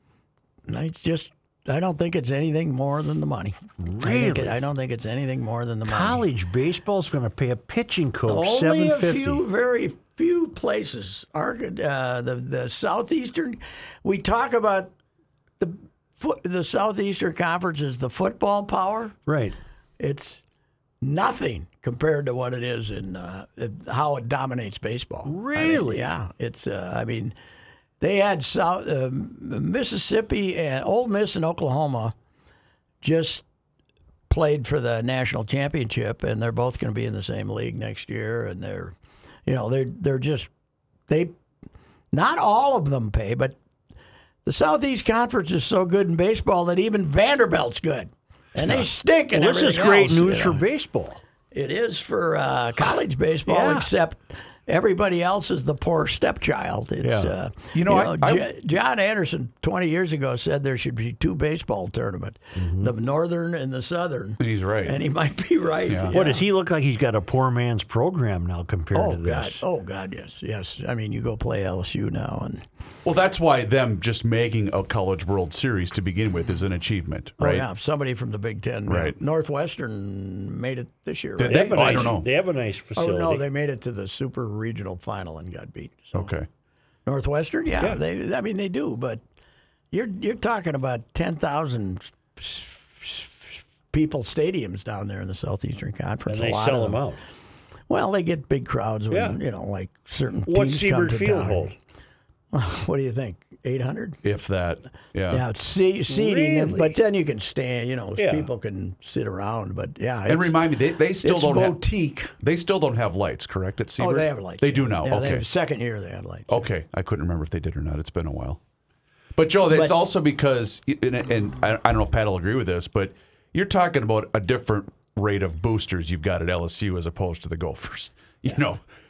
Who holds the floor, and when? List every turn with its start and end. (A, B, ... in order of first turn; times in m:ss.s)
0:00.7-0:06.2 A
0:03.8-0:04.5 B
0:05.9-0:09.4 B
0:08.3-0:14.9 A
0:15.6-0:19.2 A
0:19.3-0:19.5 B
0:20.0-0:20.4 A
0:21.0-0:27.3 A
0:25.3-0:26.1 B
0:28.0-0:32.1 A
0:33.0-0:33.4 A
0:34.3-0:38.9 A
0:39.4-0:40.5 A
0:41.1-0:41.3 A
0:42.1-0:43.6 A
0:44.4-0:50.6 A
0:48.6-0:51.2 B
0:51.5-1:06.4 A
0:53.5-0:53.9 B
0:57.0-0:57.3 B
0:57.7-0:58.5 C
1:02.6-1:02.9 B
1:04.4-1:05.0 C
1:05.9-1:06.1 C
1:06.1-1:09.6 B
1:08.9-1:12.6 A
1:13.0-1:17.7 C
1:17.4-1:22.2 A
1:18.9-1:19.2 C
1:21.4-1:22.3 C
1:21.5-1:23.4 B
1:23.0-1:26.3 A
1:26.1-1:26.5 C
1:27.0-1:29.2 A
1:29.9-1:37.0 A
1:36.3-1:37.2 B
1:37.9-1:41.7 A
1:39.1-1:39.4 B
1:40.5-1:41.7 B
1:42.5-1:44.2 A
1:44.2-1:45.4 C
1:45.3-1:50.6 A
1:46.1-1:46.9 B
1:48.2-1:48.5 B
1:50.2-1:55.4 C
1:51.2-1:52.3 A
1:54.0-1:56.6 A
1:56.5-1:58.6 C
1:59.4-2:08.8 C